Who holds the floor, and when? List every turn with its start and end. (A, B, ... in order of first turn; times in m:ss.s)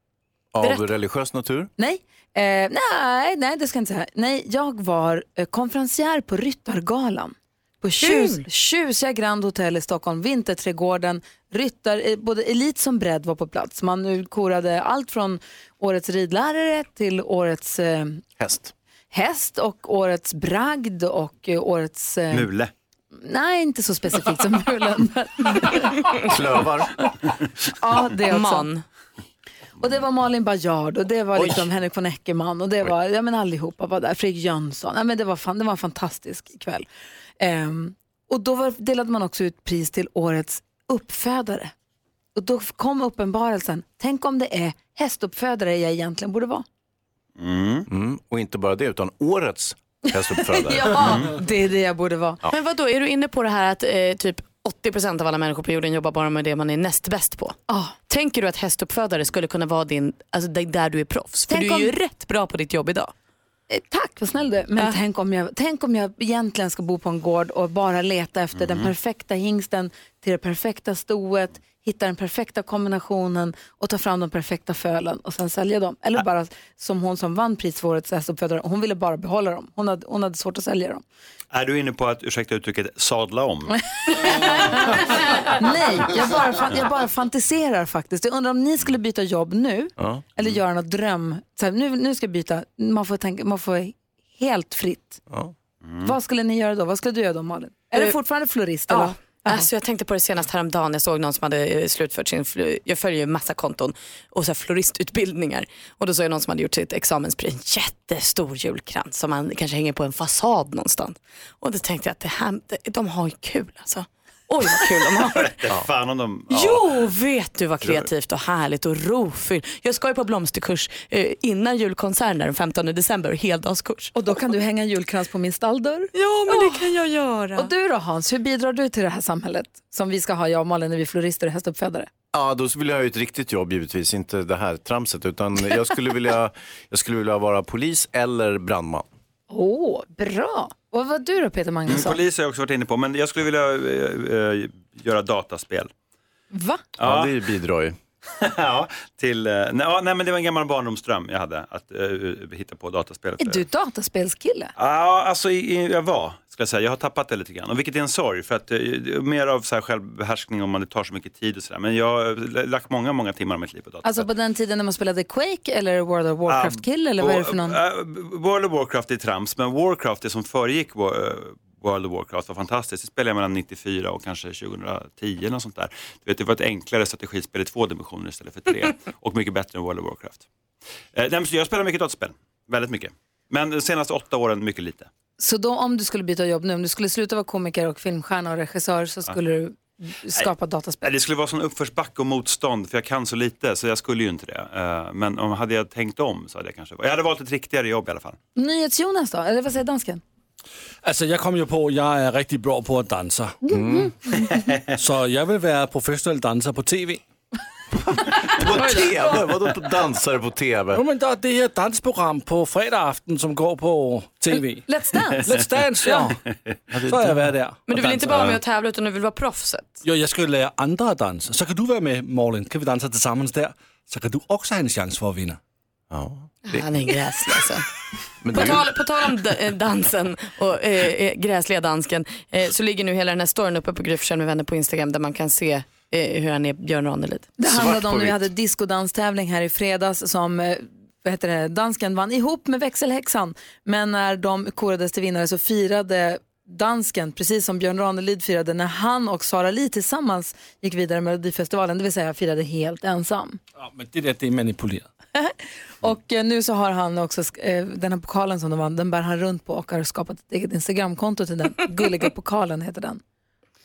0:00.5-0:01.7 A
0:01.8-0:18.2 B
0:08.0-0:08.4 C
0:18.4-0:18.7 A
0:19.1-0:22.5 B
0:22.3-0:22.7 D
0:23.2-0:26.1 B
0:26.2-0:26.9 A
0:27.8-0:28.7 B
0:28.3-0:28.8 C
0:29.8-0:36.9 B
0:37.4-0:41.7 B
0:42.4-0:46.6 B
0:47.4-0:47.9 D
0:47.9-0:51.2 A
0:50.5-0:52.4 B
0:52.5-1:03.1 C
0:57.7-0:57.9 B
1:01.5-1:02.0 B
1:03.7-1:21.0 B
1:08.6-1:08.9 D
1:21.5-1:23.8 D
1:24.1-1:35.2 B
1:30.0-1:30.3 A
1:35.3-1:35.5 A
1:35.8-1:36.1 D
1:36.0-1:39.7 B
1:38.9-1:55.6 C
1:55.4-1:56.9 D
1:56.5-2:04.2 C
2:04.2-2:06.7 B
2:06.2-2:07.7 C
2:07.6-2:12.1 B
2:12.3-2:19.1 A
2:19.5-2:22.2 B
2:21.9-2:25.9 D
2:26.5-2:26.8 B
2:27.0-2:27.3 D
2:27.0-2:28.0 A
2:28.4-2:33.6 D
2:33.4-2:34.7 B
2:34.8-2:44.2 D
2:44.0-2:47.8 B
2:46.5-3:00.4 D
3:01.2-3:05.1 D
3:05.4-3:11.0 B
3:11.0-3:18.4 D
3:18.6-3:20.2 B
3:21.0-3:23.6 E
3:23.7-3:24.1 A
3:25.0-3:27.2 E
3:28.5-3:31.0 A
3:30.9-3:36.4 E
3:34.9-3:35.5 B
3:36.9-3:37.5 A
3:37.0-3:38.6 E
3:37.9-3:40.0 C
3:40.0-3:45.6 E
3:46.1-3:46.9 A
3:46.7-3:47.8 C
3:48.4-3:48.9 A
3:48.5-3:57.5 C
3:57.6-4:13.6 B
3:57.6-3:58.5 A
4:13.8-4:15.1 E
4:15.4-4:23.2 B